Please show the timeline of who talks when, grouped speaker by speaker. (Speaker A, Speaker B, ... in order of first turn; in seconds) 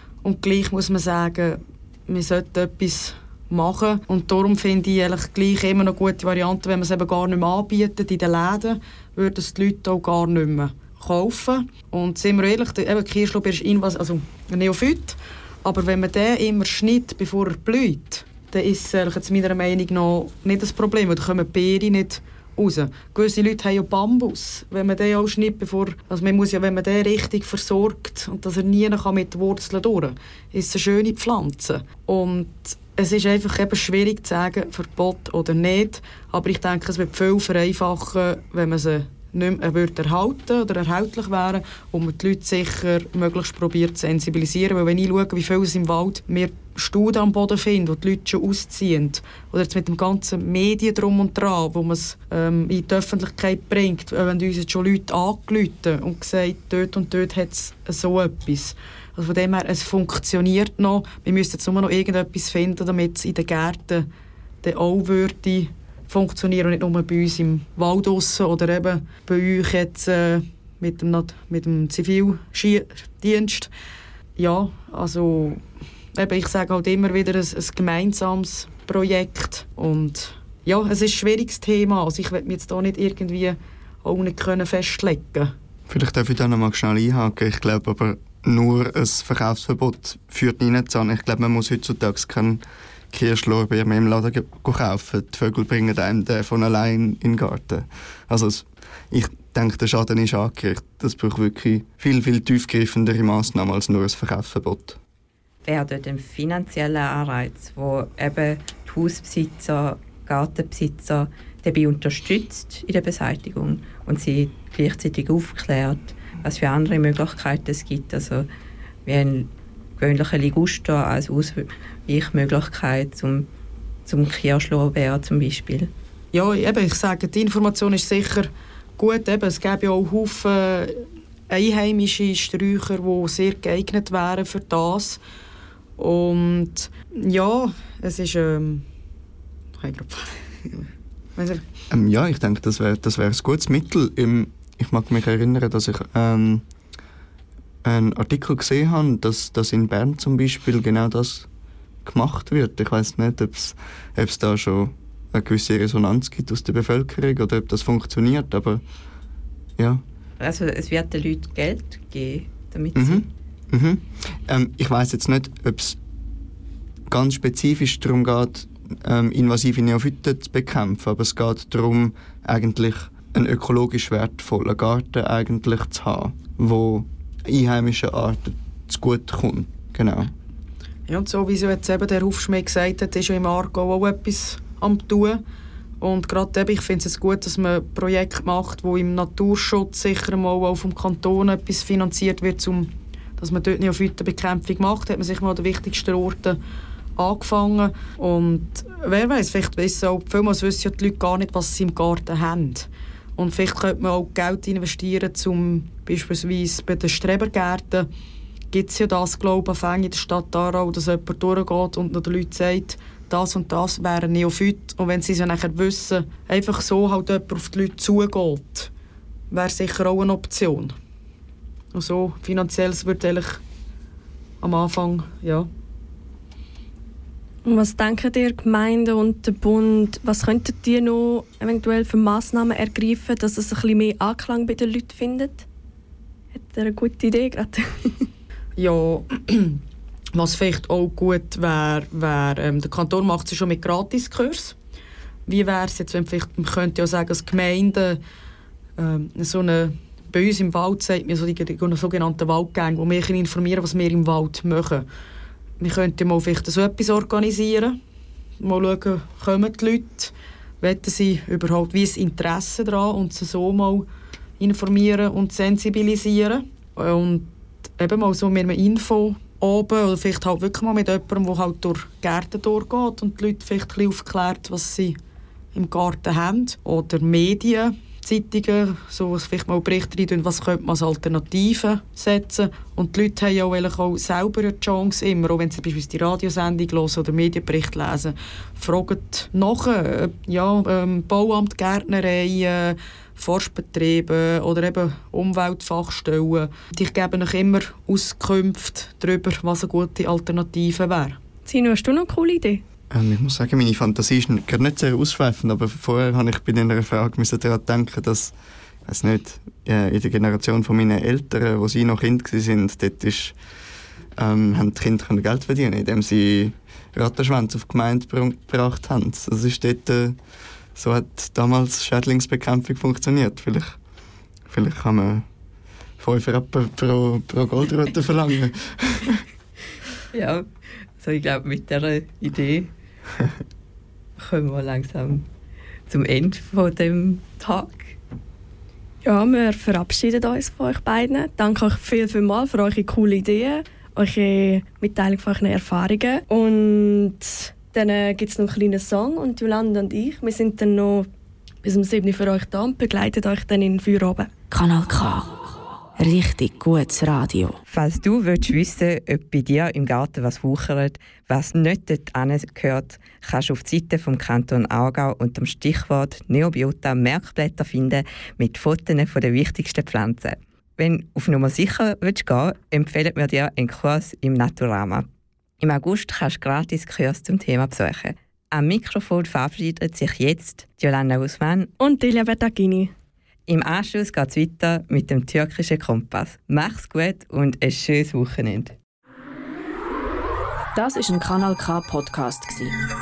Speaker A: 0.2-64.1, 64.6-73.7, 74.4-75.6, 76.2-85.5, 126.3-135.2, 136.0-138.8, 139.8-140.8, 141.4-141.7, 181.1-185.4, 186.0-196.6, 197.2-208.1, 208.7-218.9, 219.5-220.9, 221.9-223.6, 224.6-225.7, 238.8-239.8, 240.3-244.8, 245.5-248.2, 249.0-255.1, 255.8-258.0, 258.6-264.1, 264.6-275.2, 275.7-301.4
Speaker B: 85.9-105.0, 141.9-146.7, 147.8-151.5, 152.0-158.8, 159.8-160.0, 162.9-166.0, 167.1-180.3, 303.1-308.5, 309.1-313.6, 314.4-320.4, 320.9-324.0, 324.7-325.5, 326.2-329.4
Speaker C: 105.7-118.5, 119.1-123.5, 124.1-125.9, 160.4-163.3, 330.3-330.7, 331.2-332.9, 334.4-335.5, 336.1-338.1, 357.9-375.3, 375.8-381.9, 383.7-388.9
Speaker D: 227.7-235.7, 236.5-238.3, 301.6-302.8, 339.2-351.3, 351.8-354.5, 382.0-383.1
Speaker E: 354.7-355.6, 356.2-357.8, 390.9-393.0